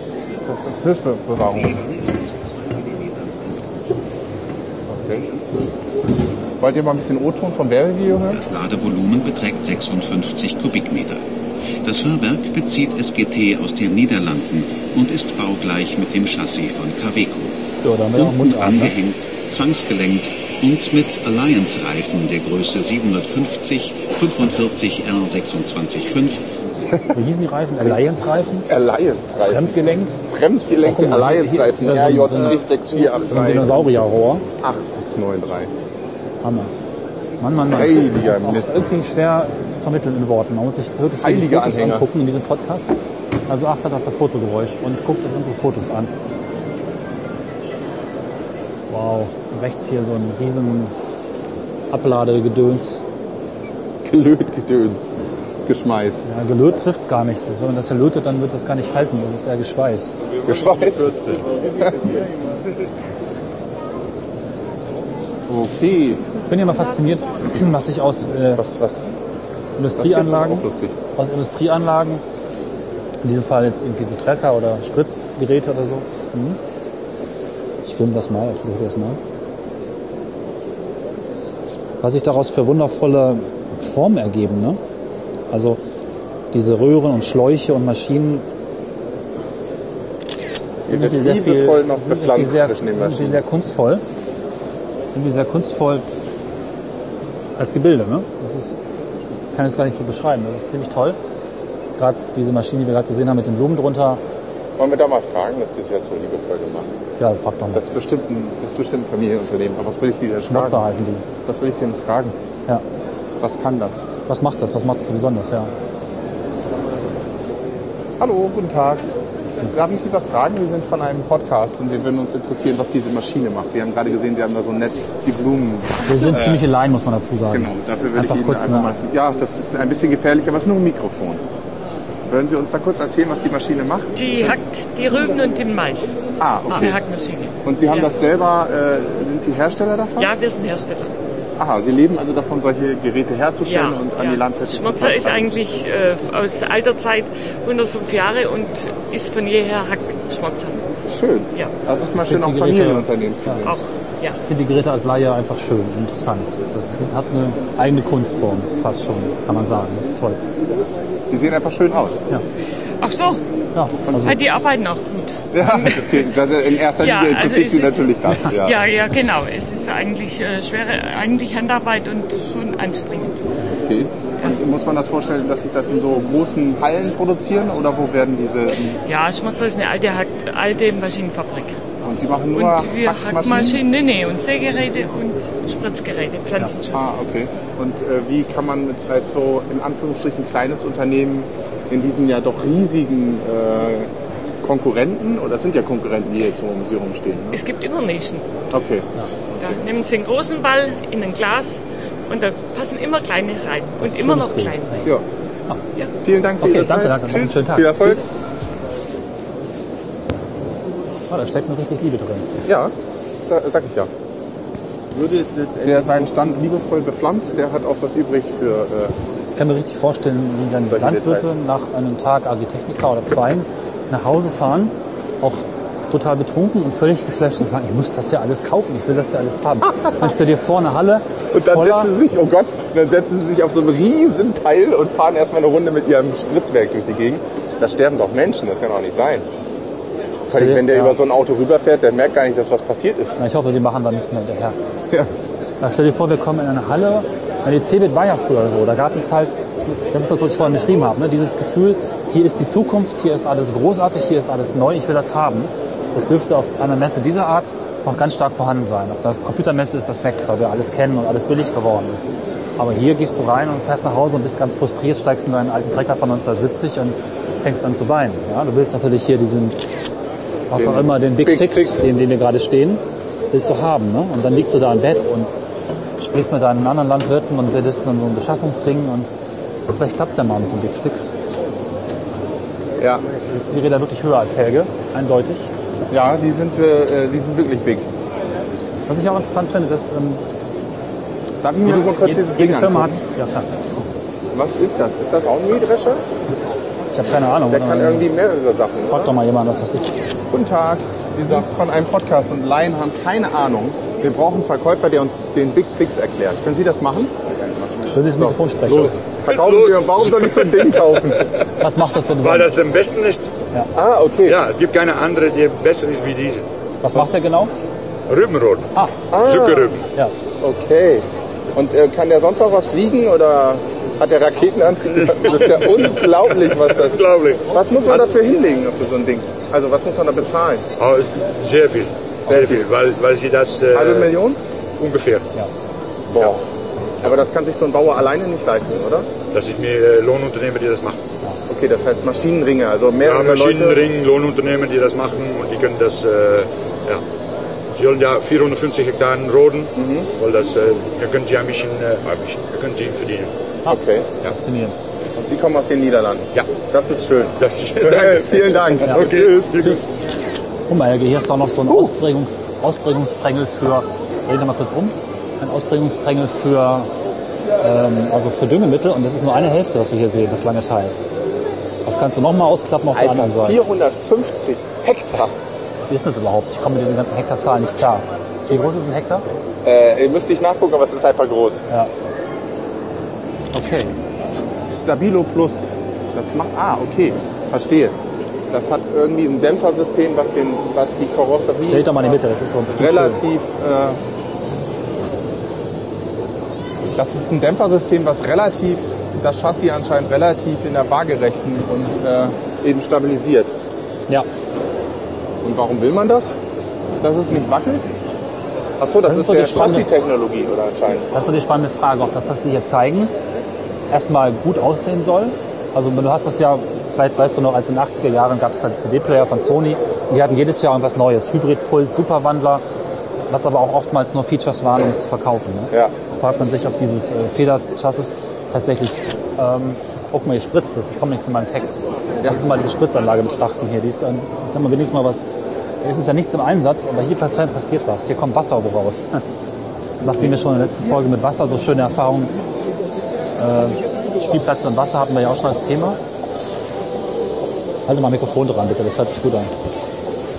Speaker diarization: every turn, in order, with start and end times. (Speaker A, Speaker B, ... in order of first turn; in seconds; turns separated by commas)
Speaker A: 0.5-1.8, Speaker A: 4.9-5.3, Speaker A: 6.6-8.4, Speaker B: 8.3-11.2, Speaker B: 11.8-17.6, Speaker C: 17.8-18.9, Speaker B: 18.1-26.4, Speaker C: 27.1-28.7, Speaker A: 28.7-35.7, Speaker C: 29.5-30.2, Speaker C: 30.8-32.6, Speaker C: 33.2-34.5, Speaker C: 36.4-36.7, Speaker C: 37.4-42.9, Speaker A: 37.7-38.8, Speaker A: 41.2-42.1, Speaker C: 43.5-46.1, Speaker C: 48.9-50.9, Speaker C: 51.9-53.0, Speaker A: 54.0-55.1, Speaker A: 55.7-56.2, Speaker C: 56.2-60.1, Speaker A: 60.4-62.2, Speaker A: 65.5-66.2, Speaker C: 66.5-68.6, Speaker A: 68.5-69.1, Speaker C: 69.8-70.6, Speaker A: 70.0-71.0, Speaker C: 71.2-72.2, Speaker C: 73.2-76.6, Speaker C: 77.8-79.2, Speaker C: 82.0-84.8, Speaker C: 85.5-85.8, Speaker C: 86.5-88.4, Speaker A: 90.9-93.4, Speaker C: 90.9-94.0, Speaker C: 95.2-96.0, Speaker C: 97.6-98.8, Speaker C: 99.5-101.2, Speaker C: 102.0-104.2, Speaker A: 104.8-106.9, Speaker C: 107.2-107.8, Speaker A: 107.7-110.9, Speaker C: 110.4-111.2, Speaker A: 111.5-112.3, Speaker A: 113.4-114.1, Speaker C: 114.3-115.7, Speaker A: 118.2-119.1, Speaker A: 119.6-126.6, Speaker C: 126.1-129.0, Speaker A: 127.5-131.4, Speaker A: 132.3-134.6, Speaker D: 134.2-138.1, Speaker A: 136.4-137.0, Speaker A: 137.7-140.3, Speaker D: 140.2-141.1, Speaker A: 141.6-145.5, Speaker D: 143.7-150.8, Speaker A: 151.1-153.8, Speaker C: 152.2-153.6, Speaker D: 153.6-154.4, Speaker C: 154.4-160.4, Speaker A: 161.3-162.2, Speaker D: 163.0-163.4, Speaker C: 163.8-164.4, Speaker D: 164.2-166.0, Speaker A: 165.5-168.9, Speaker D: 167.0-173.4, Speaker A: 173.7-179.0, Speaker D: 179.1-181.8, Speaker A: 182.0-183.8, Speaker D: 182.5-187.2, Speaker A: 186.9-194.1, Speaker A: 194.6-197.6, Speaker D: 197.5-198.5, Speaker A: 198.7-199.8, Speaker D: 199.6-205.1, Speaker C: 204.0-205.0, Speaker A: 206.2-208.2, Speaker C: 206.6-208.2, Speaker C: 211.3-212.5, Speaker A: 212.7-214.1, Speaker A: 215.1-219.2, Speaker C: 219.5-232.1, Speaker A: 220.8-221.6, Speaker A: 231.5-239.5, Speaker C: 240.5-241.2, Speaker A: 240.5-243.4, Speaker C: 243.4-244.8, Speaker C: 245.8-269.8, Speaker C: 270.7-275.5, Speaker A: 270.7-272.0, Speaker C: 276.2-279.3, Speaker C: 279.9-281.3, Speaker A: 283.0-283.3, Speaker C: 283.5-285.7, Speaker A: 286.1-288.1, Speaker C: 289.1-290.4, Speaker A: 291.6-293.2, Speaker C: 291.8-293.8, Speaker A: 294.5-296.2, Speaker C: 297.1-298.3, Speaker A: 297.7-299.3, Speaker C: 299.1-300.1, Speaker A: 300.5-311.5, Speaker C: 308.1-309.2, Speaker E: 309.5-311.4, Speaker C: 311.8-312.8, Speaker E: 312.4-313.5, Speaker A: 313.9-314.6, Speaker E: 314.4-316.7, Speaker C: 317.0-317.7, Speaker E: 318.3-320.0, Speaker A: 319.3-320.0, Speaker A: 320.6-330.9, Speaker E: 325.3-326.1, Speaker E: 327.1-327.6, Speaker E: 331.0-334.3, Speaker A: 332.5-332.9, Speaker A: 333.9-334.6, Speaker E: 335.0-335.5, Speaker A: 336.3-336.6, Speaker A: 337.2-339.3, Speaker E: 339.5-341.2, Speaker A: 341.7-344.1, Speaker E: 343.2-347.2, Speaker E: 347.9-353.5, Speaker A: 349.9-350.3, Speaker C: 353.9-355.0, Speaker A: 353.9-354.4, Speaker A: 355.4-360.0, Speaker E: 357.6-360.0, Speaker C: 360.9-367.1, Speaker A: 361.9-362.1, Speaker C: 367.8-371.2, Speaker C: 372.1-373.8, Speaker A: 373.1-375.6, Speaker C: 376.0-379.4, Speaker A: 379.8-381.9, Speaker A: 383.8-384.0, Speaker C: 383.8-384.1, Speaker A: 384.9-388.2, Speaker A: 388.7-394.2, Speaker C: 391.9-393.4, Speaker A: 397.2-403.7, Speaker A: 405.6-406.6, Speaker A: 407.2-408.1, Speaker A: 409.0-411.3, Speaker C: 409.3-410.1, Speaker C: 411.3-413.3, Speaker C: 414.1-422.8, Speaker C: 423.5-435.4, Speaker C: 436.0-439.3, Speaker C: 440.2-442.5, Speaker C: 443.6-446.2, Speaker C: 448.1-449.7